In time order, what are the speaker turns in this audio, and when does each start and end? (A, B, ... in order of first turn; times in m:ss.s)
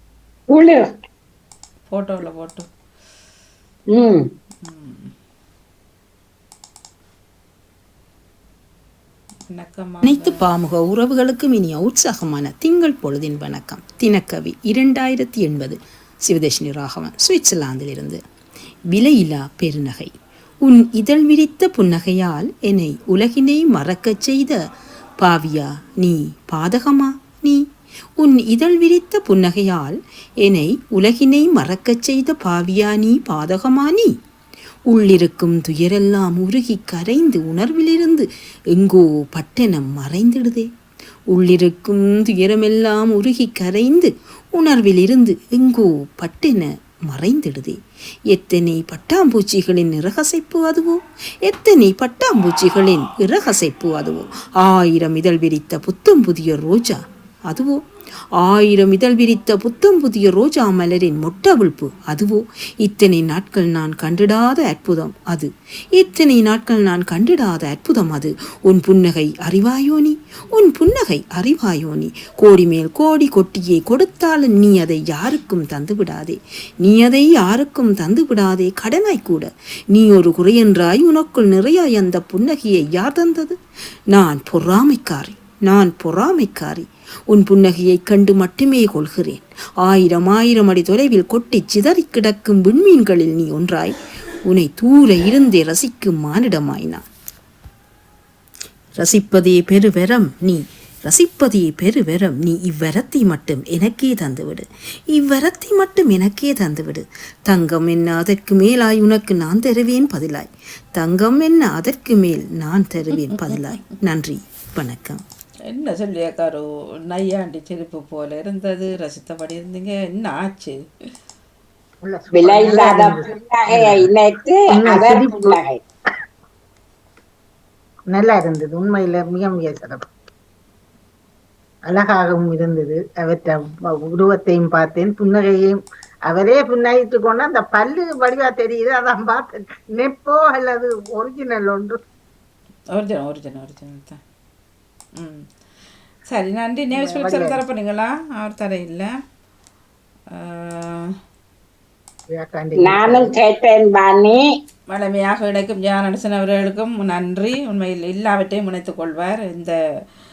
0:01.9-0:02.7 A
0:04.6-0:05.1 A
0:09.5-0:10.4 A
0:10.0-0:18.2 B
0:18.9-0:20.1 B
0:20.6-0:24.6 B
0:25.2-0:27.6 B
0:28.2-0:34.1 B
0:34.9-0:40.7 B
0:41.3-0:47.8 B
0:48.3-0:57.8 B
0:58.4-1:23.6 B
1:24.1-1:33.9 B
1:34.5-1:37.0 B
1:39.0-1:55.2 B
1:53.1-1:53.6 A
1:55.7-2:00.8 A
2:02.0-2:04.1 C
2:02.4-2:05.8 D
2:04.7-2:05.6 C
2:08.1-2:10.0 C
2:11.9-2:15.8 C
2:16.3-2:22.0 C
2:22.9-2:24.2 A
2:25.2-2:25.4 A
2:26.3-2:29.1 A
2:26.9-2:27.6 C
2:30.4-2:31.1 A
2:32.3-2:33.4 C
2:32.9-2:34.4 D
2:34.9-2:39.7 A